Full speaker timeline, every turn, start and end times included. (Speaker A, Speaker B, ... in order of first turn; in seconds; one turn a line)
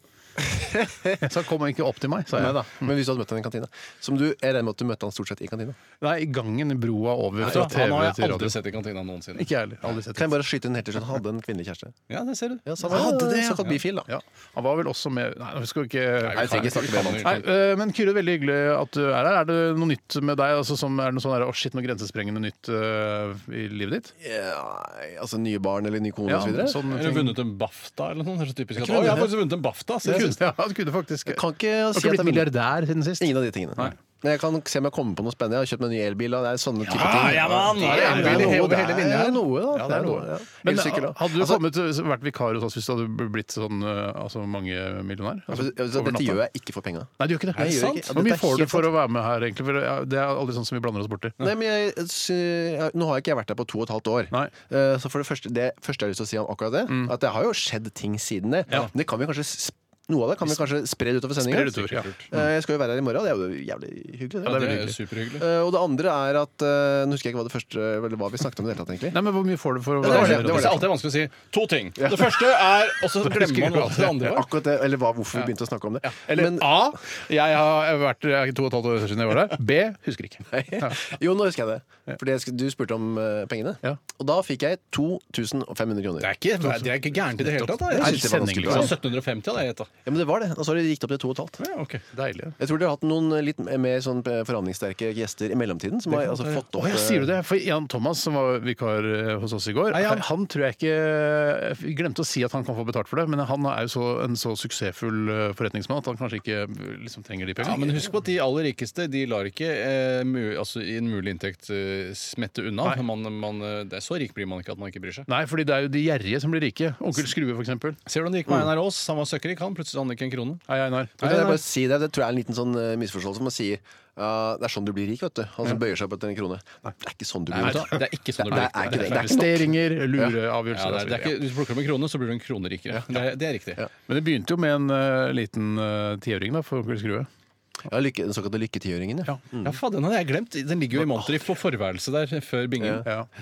Speaker A: 0.4-1.3
Speaker B: 1.2-2.9
Speaker A: 2.3-5.8
Speaker B: 6.0-8.6
Speaker C: 7.4-9.5
Speaker B: 9.3-10.3
Speaker A: 10.1-11.9
Speaker C: 12.1-13.0
Speaker A: 12.7-14.1
Speaker B: 12.8-24.1
Speaker C: 16.2-17.4
Speaker A: 16.3-17.4
Speaker A: 24.2-26.8
Speaker B: 26.3-27.4
Speaker C: 26.9-30.4
Speaker B: 28.8-29.3
Speaker B: 30.0-33.9
Speaker A: 30.1-30.3
Speaker A: 31.2-32.5
Speaker A: 33.2-41.6
Speaker B: 36.9-38.8
Speaker C: 37.0-39.4
Speaker B: 39.7-46.4
Speaker A: 45.5-48.9
Speaker B: 47.2-51.4
Speaker C: 47.6-48.1
Speaker A: 51.4-61.7
Speaker B: 61.4-62.3
Speaker C: 61.7-62.3
Speaker A: 62.3-69.2
Speaker B: 64.4-65.0
Speaker C: 64.4-65.4
Speaker B: 69.1-70.8
Speaker A: 70.0-70.9
Speaker C: 70.0-74.5
Speaker A: 72.0-72.4
Speaker B: 73.2-74.4
Speaker A: 74.3-77.0
Speaker B: 76.2-81.0
Speaker A: 80.5-86.3
Speaker C: 86.2-89.9
Speaker B: 86.6-89.0
Speaker A: 87.9-88.9
Speaker A: 90.0-91.6
Speaker C: 91.6-92.0
Speaker B: 92.1-92.6
Speaker A: 92.6-97.3
Speaker B: 96.7-108.1
Speaker C: 99.9-100.2
Speaker C: 107.6-115.3
Speaker B: 115.3-118.0
Speaker C: 118.0-120.7
Speaker B: 120.7-121.3
Speaker C: 121.2-121.6
Speaker A: 121.2-130.3
Speaker C: 127.5-129.4
Speaker B: 127.6-131.4
Speaker C: 130.7-133.8
Speaker B: 134.1-137.3
Speaker A: 137.9-139.8
Speaker C: 139.6-143.1
Speaker A: 142.8-143.1